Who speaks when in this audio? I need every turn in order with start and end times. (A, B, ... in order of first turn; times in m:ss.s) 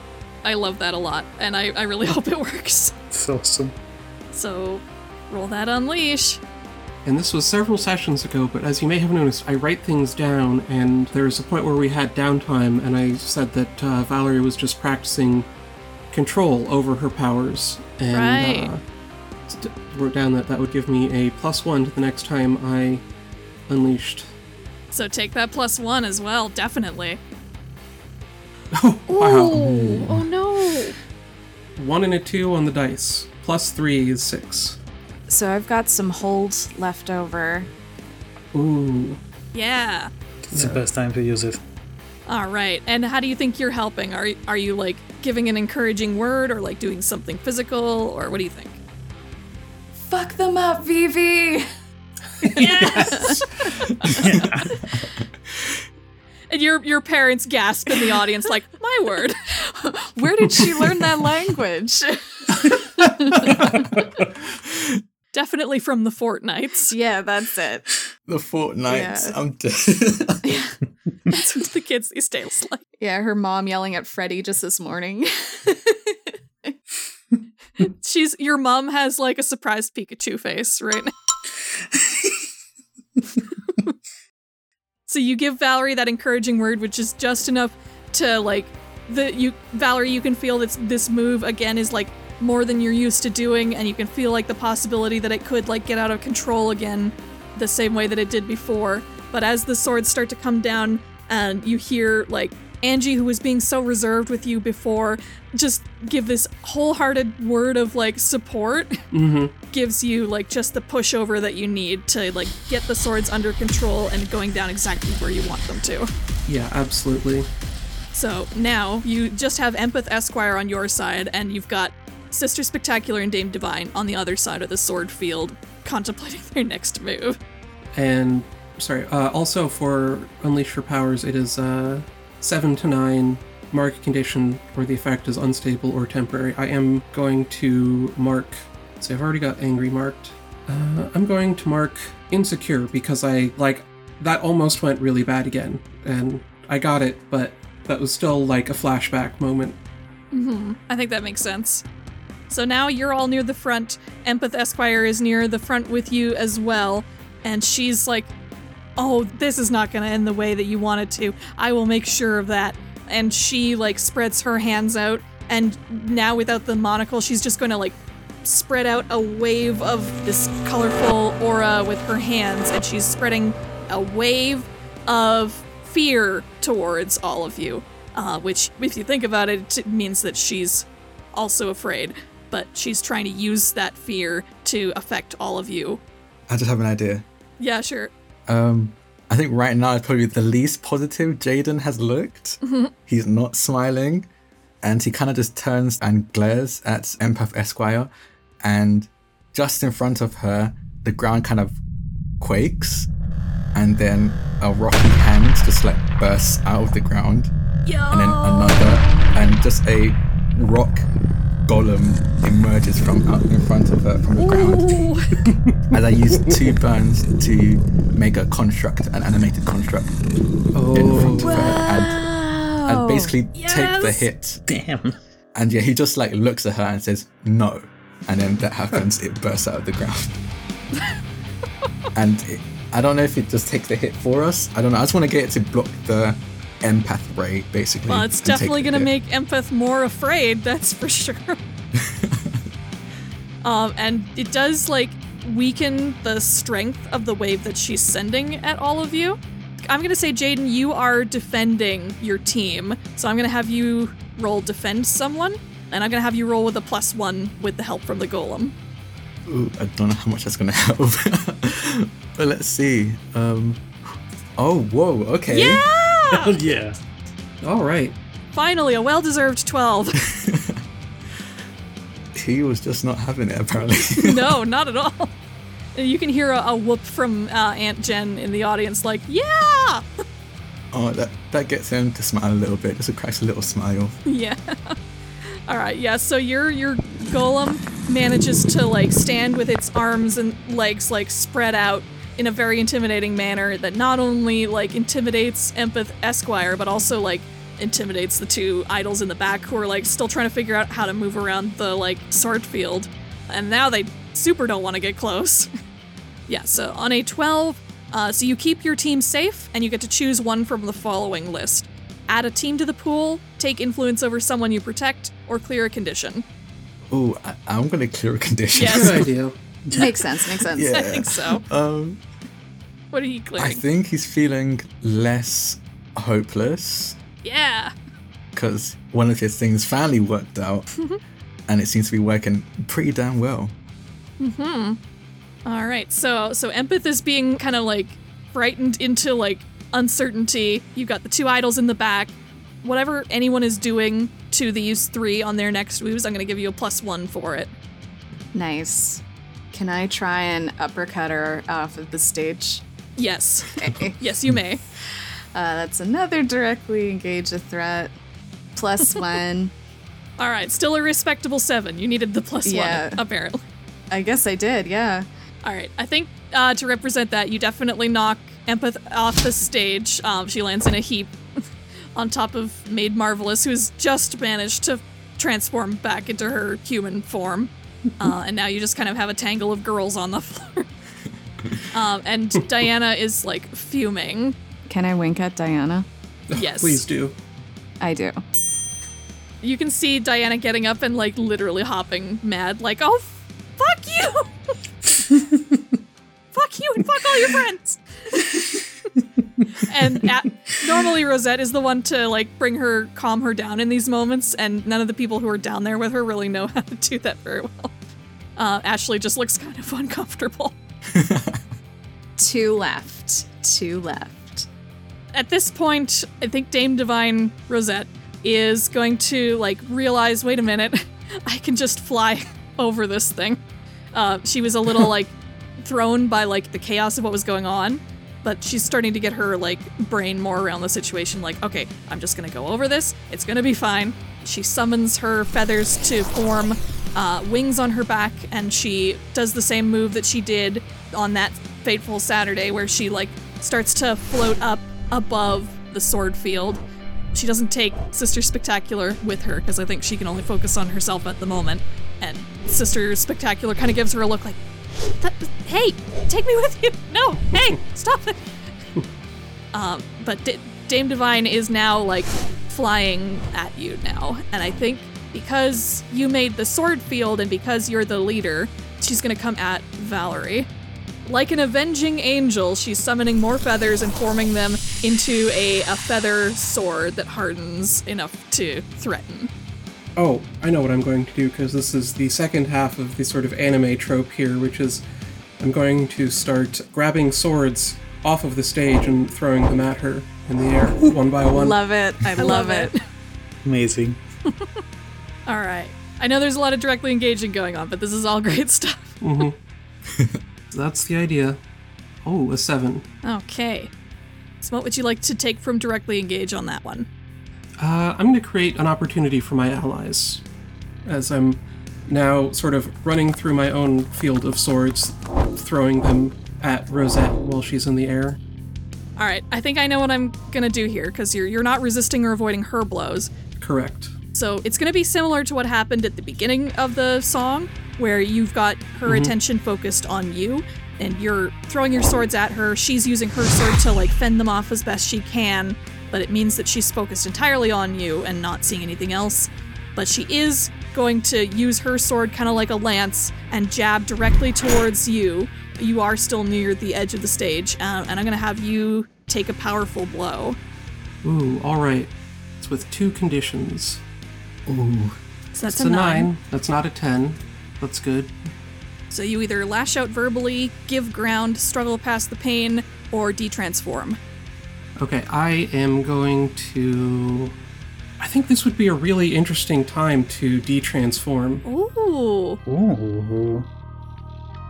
0:00.4-0:02.9 A
0:03.1-0:03.7 B
0:04.3-0:06.4 A
0:07.0-0:15.5 C
0:16.1-0:18.8 C
0:18.1-0:18.7 A
0:19.5-0:23.0 C
0:23.7-0:24.3 C
0:24.9-0:27.2 A
0:28.7-0:29.7 C
0:29.1-0:31.0 A
0:31.8-0:34.8 C
0:35.3-0:37.7 D
0:38.5-0:39.2 C
0:39.5-0:40.1 A
0:40.5-0:41.6 B
0:42.3-0:48.8 A
0:49.9-0:51.7 D
0:52.5-0:54.7 A
0:52.9-0:53.4 D
0:54.1-0:54.8 B
0:55.5-0:55.8 E
0:56.5-0:59.4 A
0:59.5-1:03.9 D
1:03.5-1:04.3 B
1:04.7-1:05.0 E
1:05.3-1:06.9 A
1:06.8-1:07.9 D
1:08.3-1:10.6 E
1:08.9-1:09.3 D
1:10.4-1:10.8 D
1:11.3-1:12.8 A
1:13.0-1:16.7 D
1:17.8-1:21.1 A
1:21.9-1:22.4 B
1:25.1-1:49.0 A
1:49.1-1:49.5 C
1:49.7-1:56.1 A
1:56.5-1:57.5 C
1:58.1-2:07.4 A
2:08.0-2:29.8 C
2:30.3-2:31.8 A
2:32.5-2:38.3 A
2:39.0-3:06.0 A
3:06.5-3:07.2 E
3:07.6-3:08.1 A
3:08.5-3:14.3 E
3:12.6-3:12.9 A
3:14.8-3:18.1 E
3:18.6-3:21.8 E
3:22.4-3:23.1 E
3:23.7-3:27.5 E
3:27.8-3:29.1 A
3:28.1-3:31.0 E
3:31.6-3:35.1 E
3:34.4-3:35.3 A
3:35.9-3:40.2 E
3:40.7-3:41.8 C
3:40.9-3:42.3 E
3:41.4-3:41.8 A
3:41.5-3:43.3 D
3:42.8-3:44.6 E
3:43.5-3:44.2 A
3:44.7-3:45.2 B
3:45.5-3:50.4 E
3:52.1-3:59.1 E
3:58.1-4:01.6 A
4:01.9-4:02.6 E
4:03.6-4:18.7 A
4:19.5-4:23.8 E
4:24.6-4:25.8 E
4:25.5-4:26.6 A
4:26.3-4:27.0 B
4:27.6-4:28.1 C
4:28.5-4:30.2 A
4:30.2-4:30.8 E
4:32.3-4:34.5 E
4:34.2-4:35.3 A
4:35.9-4:40.0 A
4:40.9-4:44.2 E
4:44.2-5:05.7 A
5:06.5-5:16.4 A
5:17.1-5:19.3 E
5:18.7-5:19.2 A
5:18.9-5:19.6 C
5:19.9-5:20.1 B
5:19.9-5:21.0 D
5:20.7-5:22.2 E
5:20.8-5:21.6 A
5:23.1-5:23.8 A
5:23.6-5:27.2 E
5:27.4-5:27.9 A
5:28.5-5:30.9 E
5:31.7-5:33.7 E
5:34.4-5:35.0 A
5:35.6-5:47.7 A
5:48.5-5:52.8 D
5:53.2-5:54.8 A
5:53.8-5:54.2 D
5:55.5-5:58.1 D
5:58.7-5:59.7 D
6:00.4-6:03.6 A
6:02.6-6:03.2 D
6:04.1-6:05.3 D
6:05.6-6:11.6 A
6:12.1-6:20.9 A
6:21.9-6:24.5 A
6:24.9-6:26.1 D
6:26.5-6:27.3 C
6:26.5-6:27.0 A
6:28.0-6:28.4 D
6:29.6-6:34.5 A
6:35.3-6:35.6 B
6:36.5-6:38.8 A
6:39.2-6:39.4 B
6:39.8-6:47.9 A
6:48.6-6:50.7 A
6:51.1-6:51.6 E
6:52.4-6:54.7 D
6:55.3-7:03.6 A
7:04.1-7:26.8 A
7:27.3-7:38.5 A
7:39.7-7:50.7 A
7:51.2-7:59.5 A
8:00.2-8:05.0 C
8:05.6-8:11.8 C
8:11.5-8:12.9 D
8:12.4-8:13.0 A
8:13.6-8:14.2 B
8:15.5-8:19.4 A
8:19.2-8:19.6 C
8:20.1-8:20.4 E
8:20.7-8:21.6 C
8:22.2-8:23.0 C
8:23.2-8:23.9 A
8:24.6-8:27.1 A
8:27.8-8:30.4 C
8:31.0-8:38.4 C
8:39.2-8:43.3 A
8:43.6-8:44.1 C
8:44.3-9:10.6 A
8:49.0-8:49.3 C
9:11.2-9:14.0 C
9:14.7-9:15.2 E
9:15.5-9:16.3 A
9:15.7-9:18.5 C
9:19.1-9:24.2 A
9:25.0-9:27.5 C
9:28.2-9:31.6 C
9:31.6-9:32.6 A
9:32.7-9:33.7 B